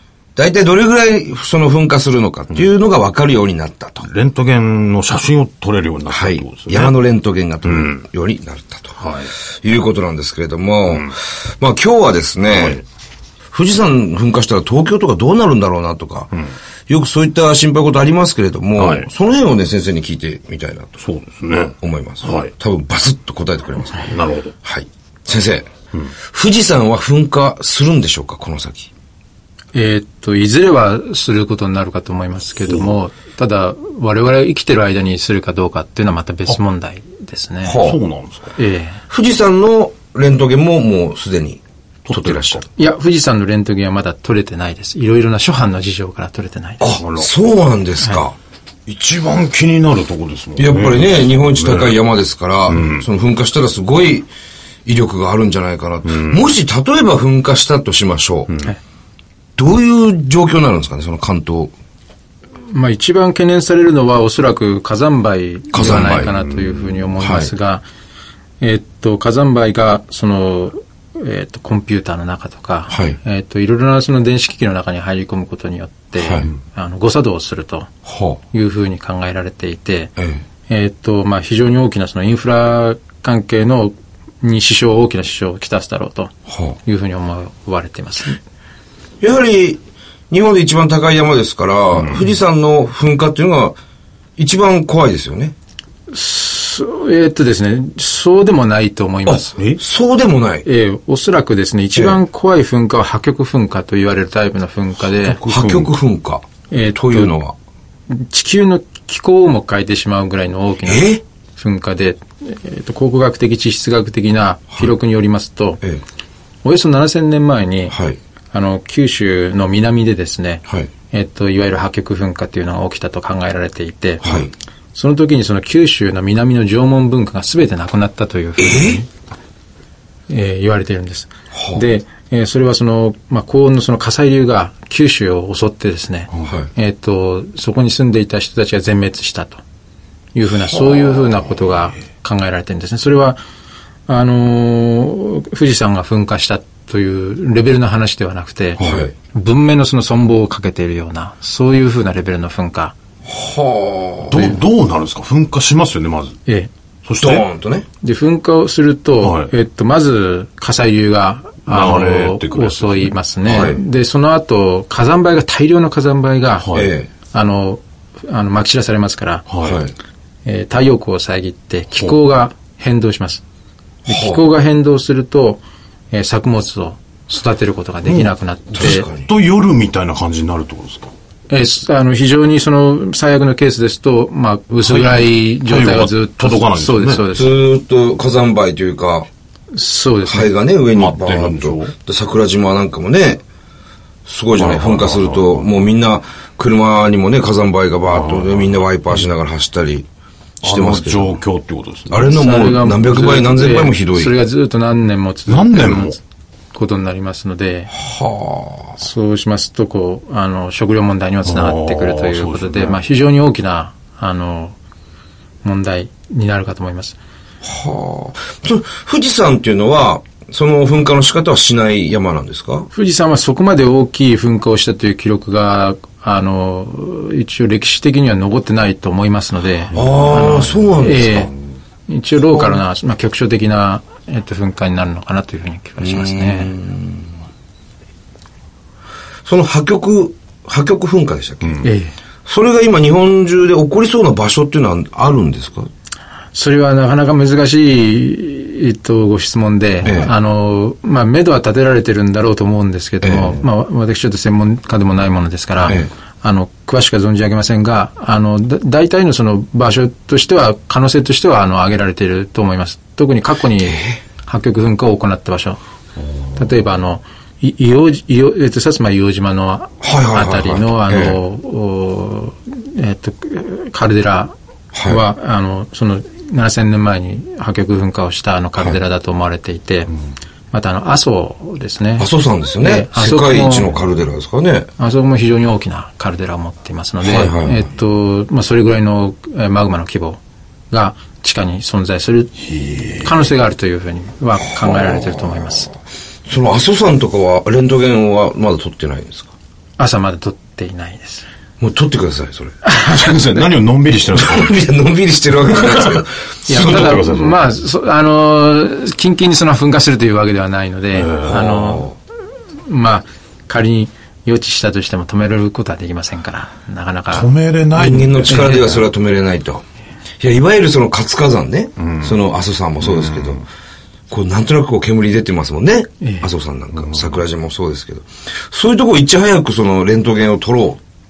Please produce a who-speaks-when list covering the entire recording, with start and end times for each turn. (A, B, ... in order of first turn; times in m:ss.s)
0:00.4-0:04.1 A
0:04.0-0:06.9 B
0:06.1-0:09.0 A
0:07.6-0:08.0 B
0:09.0-0:09.3 B
0:09.6-0:12.8 A
0:12.5-0:12.8 B
0:13.5-0:16.3 A
0:16.9-0:21.0 A
0:18.8-0:19.1 B
0:21.0-0:22.5 B
0:21.8-0:28.9 A
0:24.1-0:24.5 B
0:29.7-0:37.8 C
0:37.6-0:38.0 A
0:37.8-0:38.5 B
0:38.6-0:39.0 C
0:39.1-0:42.6 A
0:42.1-0:42.6 B
0:42.8-0:46.8 C
0:46.8-0:48.4 A
0:47.0-0:47.3 B
0:48.9-0:51.9 B
0:50.6-0:54.3 A
0:52.7-0:53.0 B
0:54.8-0:58.5 A
0:56.0-0:56.4 B
0:59.6-1:01.7 A
1:02.7-1:07.8 C
1:05.7-1:06.3 A
1:05.8-1:07.1 B
1:07.2-1:07.5 A
1:08.6-1:17.9 C
1:12.9-1:13.2 A
1:16.2-1:16.5 A
1:18.0-1:18.4 A
1:18.5-1:20.1 C
1:20.7-1:28.4 C
1:26.5-1:26.8 A
1:29.2-1:33.8 A
1:34.4-1:35.5 A
1:36.1-1:39.6 C
1:39.3-1:40.6 A
1:40.6-1:45.4 C
1:45.2-1:45.9 B
1:45.5-1:47.5 A
1:46.7-1:47.4 C
1:48.1-1:55.8 C
1:50.8-1:51.2 A
1:56.6-1:58.0 C
1:57.9-1:58.2 A
1:58.5-2:04.4 C
2:04.2-2:04.5 A
2:04.9-2:09.0 C
2:08.6-2:09.0 A
2:10.3-2:19.6 C
2:11.5-2:11.8 A
2:20.3-2:23.4 C
2:24.1-2:32.9 C
2:28.8-2:29.1 A
2:33.2-2:34.6 A
2:34.3-2:36.4 B
2:37.0-2:37.4 B
2:37.2-2:37.8 A
2:38.0-2:46.7 C
2:39.2-2:39.5 B
2:41.7-2:43.1 B
2:43.5-2:43.8 A
2:46.6-2:46.9 B
2:46.7-2:47.1 A
2:47.3-2:49.4 C
2:49.5-2:49.8 B
2:49.6-2:49.9 A
2:50.4-2:53.4 C
2:54.0-2:55.6 C
2:54.1-2:54.4 A
2:56.1-2:59.1 C
2:58.0-3:01.1 B
2:58.7-2:59.3 A
3:01.5-3:07.5 C
3:04.8-3:07.3 B
3:07.3-3:09.3 A
3:09.7-3:10.5 C
3:10.3-3:13.4 A
3:10.9-3:11.9 B
3:14.2-3:20.1 A
3:14.5-3:15.7 B
3:18.1-3:18.8 B
3:20.6-3:21.4 A
3:20.6-3:22.3 B
3:22.1-3:24.3 A
3:22.2-3:26.2 C
3:25.5-3:26.2 B
3:26.7-3:27.9 C
3:28.0-3:29.0 A
3:29.0-3:34.8 C
3:31.4-3:33.0 B
3:35.6-3:37.2 C
3:37.6-3:42.9 A
3:42.9-3:51.5 C
3:49.9-3:51.0 B
3:49.9-3:51.5 A
3:52.1-3:56.7 C
3:56.0-3:57.3 A
3:59.4-4:01.8 A
4:01.8-4:02.1 C
4:02.4-4:05.9 A
4:06.5-4:25.8 C
4:10.0-4:10.3 A
4:13.2-4:13.6 A
4:23.8-4:24.2 A
4:26.6-4:34.5 C
4:30.0-4:31.4 A
4:34.9-4:35.2 A
4:35.0-4:40.1 C
4:40.7-4:42.3 C
4:42.2-4:44.9 A
4:42.8-4:43.9 C
4:45.0-4:50.4 C
4:47.2-4:47.8 A
4:50.9-4:52.5 C
4:52.7-4:53.3 B
4:53.2-4:55.9 C
4:54.8-4:55.7 A
4:56.4-4:59.5 A
5:00.0-5:01.4 C
5:01.8-5:02.8 A
5:02.8-5:03.3 C
5:03.0-5:04.8 B
5:04.3-5:07.2 A
5:05.7-5:07.7 B
5:06.7-5:12.1 C
5:11.1-5:11.6 B
5:11.4-5:12.1 A
5:12.8-5:17.5 C
5:17.3-5:18.8 B
5:17.9-5:19.8 A
5:18.5-5:19.0 C
5:20.4-5:23.6 A
5:22.0-5:22.3 B
5:23.0-5:23.6 B
5:24.3-5:31.0 A
5:26.2-5:26.5 C